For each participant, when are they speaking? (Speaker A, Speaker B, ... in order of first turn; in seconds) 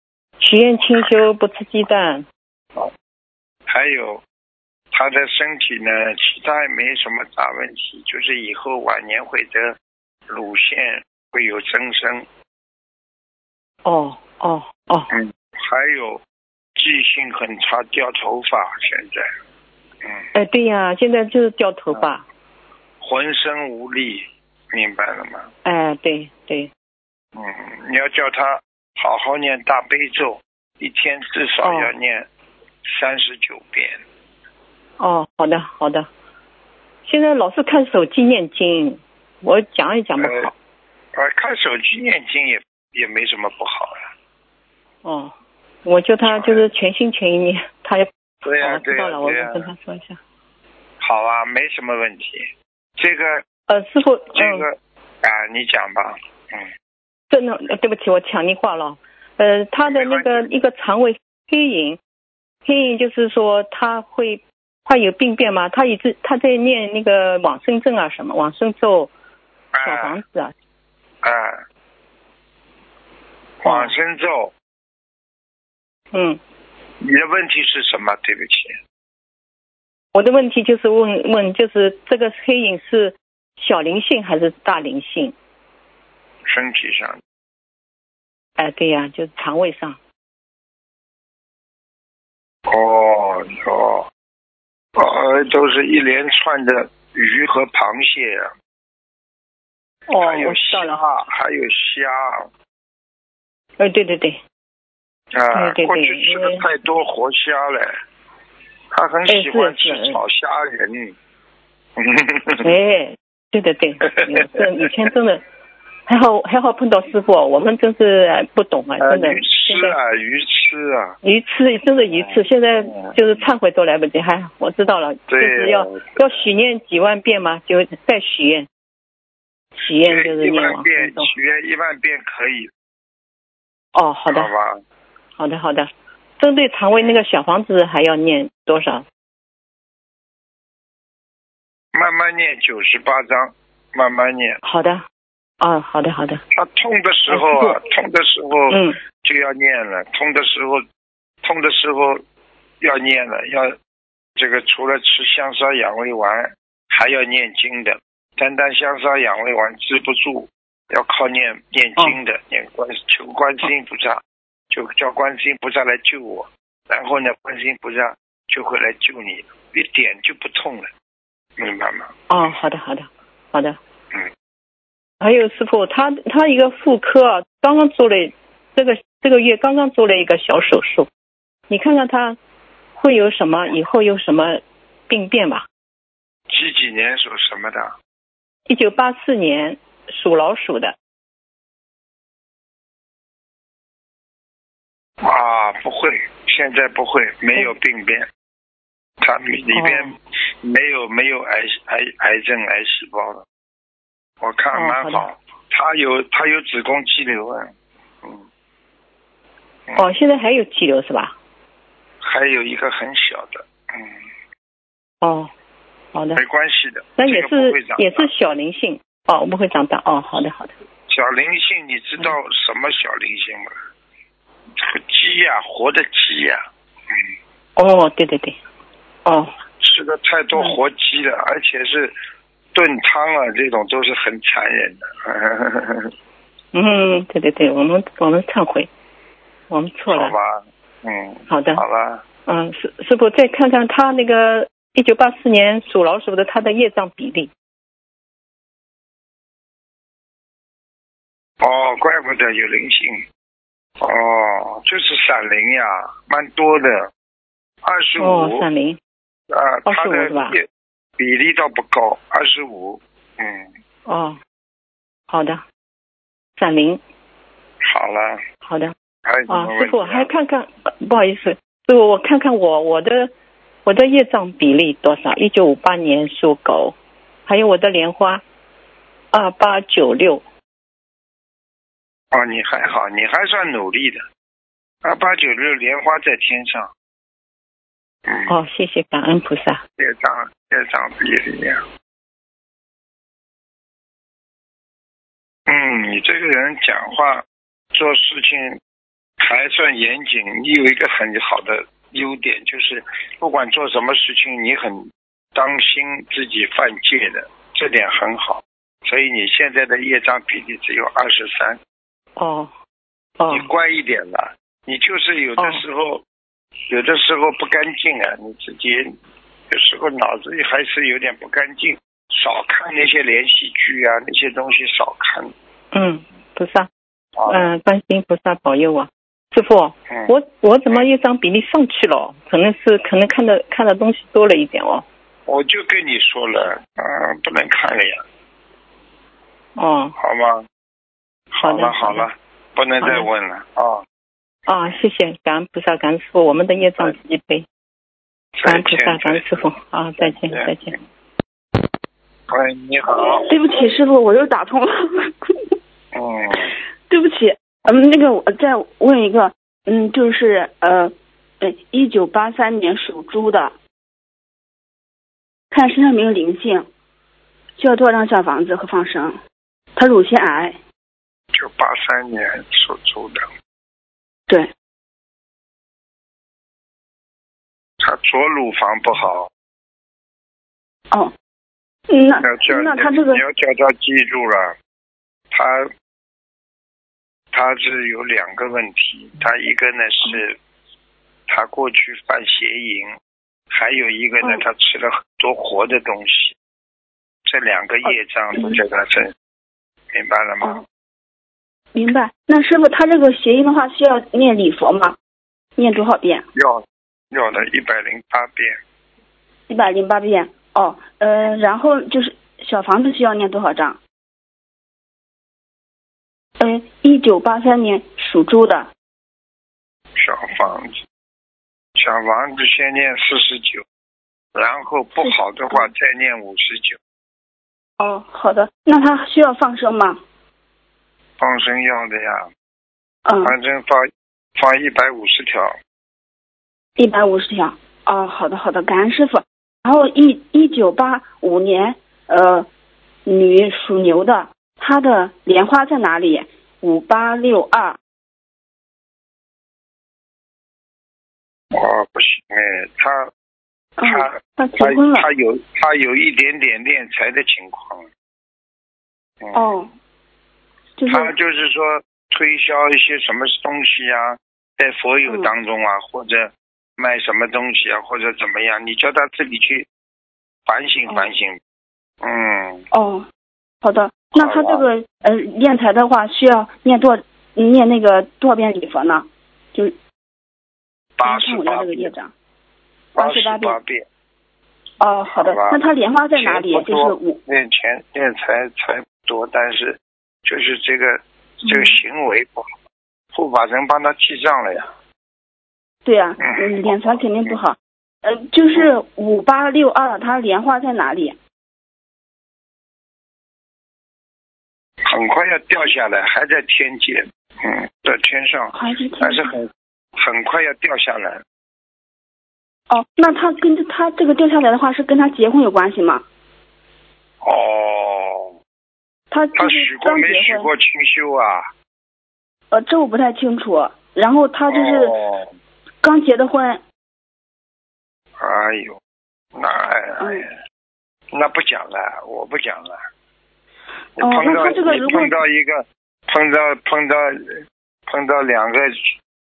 Speaker A: 0.4-2.2, 13.8-15.1, 20.3-22.2, 25.6-26.7, 31.6-31.9, 35.0-36.1, 37.0-40.5, 45.0-45.3, 45.8-50.2, 53.7-54.6, 57.3-62.0, 62.6-69.1, 69.8-70.5, 73.6-73.9, 76.1-76.4, 80.1-85.3, 88.6-90.0, 100.1-101.0, 103.8-104.4, 105.5-106.6, 109.3-110.2, 112.6-115.4, 116.1-120.0, 121.2-128.7, 129.8-131.3, 133.9-134.5, 135.4-139.0, 144.6-145.0, 145.6-146.4, 147.3-147.8, 148.7-149.0, 172.3-173.8, 175.2-181.1, 181.7-182.4, 183.0-185.7, 188.7-190.9, 199.7-200.1, 204.7-205.2, 210.0-211.3, 215.2-215.5, 216.1-216.4, 217.2-220.7, 227.8-228.6, 229.2-229.5, 236.7-238.9, 239.7-240.3, 241.5-241.8, 242.4-247.5, 258.2-259.0, 259.9-260.6, 264.1-264.4, 265.3-265.6, 266.6-267.0, 268.6-268.9, 269.5-273.3, 273.8-276.9, 277.5-278.4, 279.3-280.4, 288.5-289.8, 312.4-312.7, 313.4-313.7, 315.6-315.8, 325.9-326.9, 327.5-335.0, 339.8-340.1, 341.6-342.2, 343.0-343.3, 344.7-347.6, 348.6-350.9
Speaker B: 0.9-1.2, 3.7-4.2, 4.9-9.8, 10.3-12.2, 15.1-16.2, 16.8-19.3, 23.0-25.5, 27.3-32.3, 32.9-34.0, 40.2-40.5, 41.1-44.1, 46.2-46.6, 48.4-49.7, 51.0-53.4, 54.3-56.7, 59.9-60.5, 69.7-70.2, 71.2-71.6, 73.6-74.5, 77.0-78.8, 86.5-87.2, 92.7-94.1, 95.0-98.5, 100.2-102.5, 105.3-107.9, 108.9-111.1, 112.0-112.7, 119.0-121.2, 122.1-123.2, 125.3-126.5, 130.0-132.7, 134.3-134.8, 136.9-137.2, 141.9-144.6, 146.5-150.8, 151.4-152.2, 152.8-153.8, 154.4-170.9, 171.6-172.1, 186.5-187.9, 195.2-198.3, 199.2-203.4, 204.4-207.7, 212.2-214.2, 216.3-218.3, 221.1-223.7, 224.8-226.6, 229.8-232.1, 232.7-236.1, 240.1-242.2, 251.6-253.2, 254.0-257.1, 257.8-258.6, 259.5-260.6, 261.2-263.7, 267.8-268.4, 269.2-270.3, 282.3-284.2, 285.0-286.9, 288.3-288.5, 290.0-291.8, 295.7-298.8, 299.4-311.8, 313.5-316.2, 316.9-319.1, 319.7-325.5, 327.4-327.7, 335.5-338.2, 340.2-340.6, 341.5-344.0, 348.6-349.6, 350.2-350.7, 352.5-353.5, 356.1-356.7, 371.5-373.4, 378.0-379.5, 382.4-384.7, 385.5-385.9, 387.5-390.5, 391.5-393.1, 393.7-396.5, 397.4-399.3, 400.1-400.8, 406.5-408.8, 420.1-421.0, 422.0-423.8, 424.5-427.0, 431.4-432.4, 433.4-435.7, 451.7-453.3, 454.0-458.1, 459.4-459.7, 461.1-469.9, 470.7-471.6, 472.2-472.8, 474.4-474.8, 481.2-482.1, 483.1-484.0, 485.4-485.8, 486.4-492.7, 493.3-494.9, 496.4-497.6, 505.0-511.4, 517.4-518.5, 519.5-521.7, 524.7-525.5, 528.4-529.0, 529.5-530.5, 531.3-533.0, 534.2-539.0
Speaker C: 353.1-355.6, 357.1-363.7, 365.7-366.9, 367.8-369.4, 369.9-370.8, 382.1-383.4, 398.0-398.8, 401.9-405.1, 405.8-406.4, 409.7-414.0, 416.6-418.9, 425.2-425.9, 428.0-430.2, 433.2-433.5, 437.0-442.7, 443.2-448.0, 454.0-455.3, 459.5-459.9, 461.0-461.3, 465.2-465.5, 472.9-473.2, 473.8-479.9, 481.2-482.3, 483.1-483.8, 485.0-487.4, 491.6-492.0, 496.0-501.4, 508.7-509.5, 512.9-516.2, 519.3-520.7, 522.7-525.1, 526.0-526.8, 530.2-530.5, 534.2-535.4